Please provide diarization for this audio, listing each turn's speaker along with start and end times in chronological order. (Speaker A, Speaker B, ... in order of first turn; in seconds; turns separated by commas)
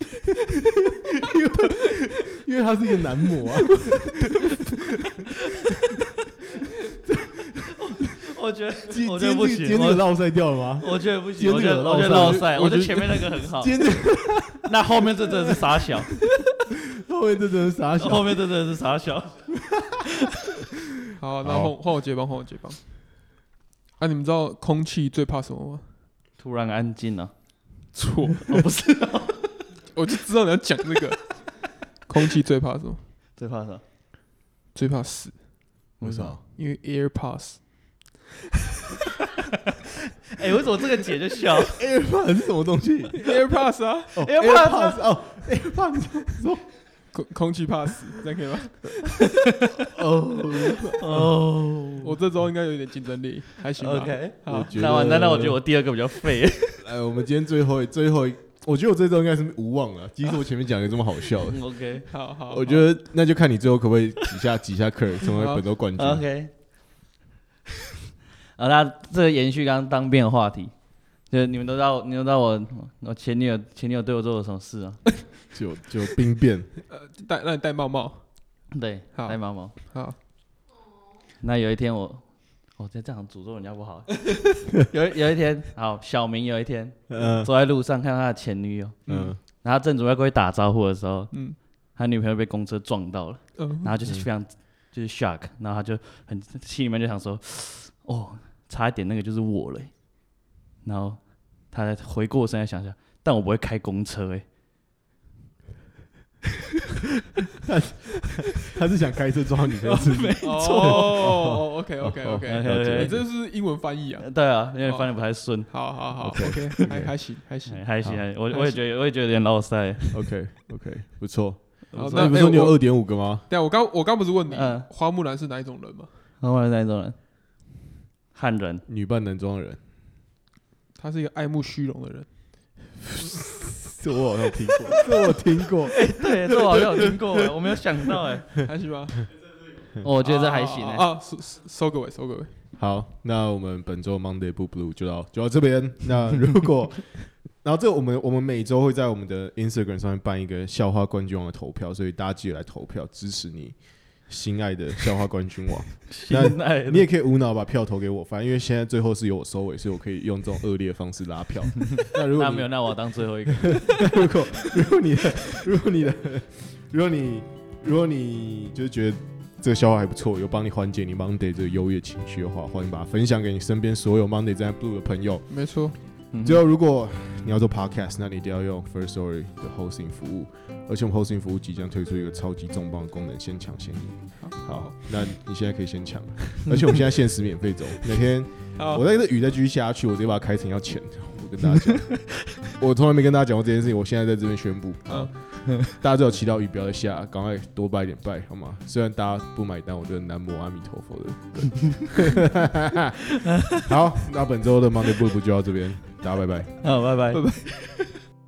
Speaker A: 1.2-4.7, Speaker A: 7.1-7.7, Speaker B: 7.8-16.2, Speaker A: 8.9-12.5, Speaker C: 12.0-13.4, Speaker A: 13.5-14.7, Speaker A: 17.0-18.4, Speaker B: 18.0-19.7, Speaker C: 21.2-22.8, Speaker A: 21.4-21.7, Speaker C: 24.0-25.9, Speaker B: 26.4-27.3, Speaker C: 27.9-28.7, Speaker B: 28.5-29.8, Speaker C: 29.9-33.1, Speaker B: 33.4-33.8, Speaker C: 34.7-35.7, Speaker B: 36.0-36.4, Speaker A: 36.0-36.4, Speaker C: 36.5-38.2, Speaker B: 40.3-41.8, Speaker A: 41.8-43.2, Speaker C: 43.1-44.2, Speaker A: 44.1-46.7, Speaker B: 44.2-45.0, Speaker C: 47.1-49.1, Speaker B: 49.2-49.5, Speaker A: 49.9-51.3, Speaker B: 51.0-52.2, Speaker C: 52.0-54.8, Speaker B: 53.8-56.9, Speaker A: 54.5-55.6, Speaker A: 56.8-61.8, Speaker B: 61.5-62.1, Speaker C: 62.1-62.9, Speaker A: 62.5-66.2, Speaker C: 65.2-65.6, Speaker B: 66.0-67.0, Speaker B: 68.6-75.5, Speaker A: 75.5-76.8, Speaker C: 76.9-80.2, Speaker B: 78.7-79.8, Speaker B: 81.4-104.4, Speaker A: 87.1-87.5, Speaker A: 89.1-89.4, Speaker C: 89.1-89.3, Speaker C: 91.3-91.6, Speaker C: 93.6-94.0, Speaker A: 107.7-113.2, Speaker B: 109.9-111.5, Speaker C: 110.4-118.8, Speaker B: 112.5-113.3, Speaker B: 114.2-116.7, Speaker A: 116.2-117.2, Speaker B: 117.7-120.4, Speaker A: 120.1-123.5, Speaker B: 121.9-122.5, Speaker C: 121.9-126.1, Speaker B: 124.5-124.9, Speaker B: 126.4-127.2, Speaker B: 128.3-128.8, Speaker A: 128.9-129.8, Speaker C: 131.0-132.3, Speaker A: 133.9-137.3, Speaker B: 135.9-138.6, Speaker C: 138.6-139.3, Speaker B: 140.0-141.1, Speaker C: 140.2-142.6, Speaker A: 142.8-175.7, Speaker B: 156.1-157.1, Speaker B: 162.3-164.2, Speaker C: 175.5-176.0, Speaker B: 176.3-176.6, Speaker A: 176.4-203.1, Speaker C: 184.4-185.0, Speaker C: 188.8-189.1, Speaker C: 195.1-195.3, Speaker A: 203.7-206.9, Speaker B: 206.8-207.5, Speaker C: 207.3-208.1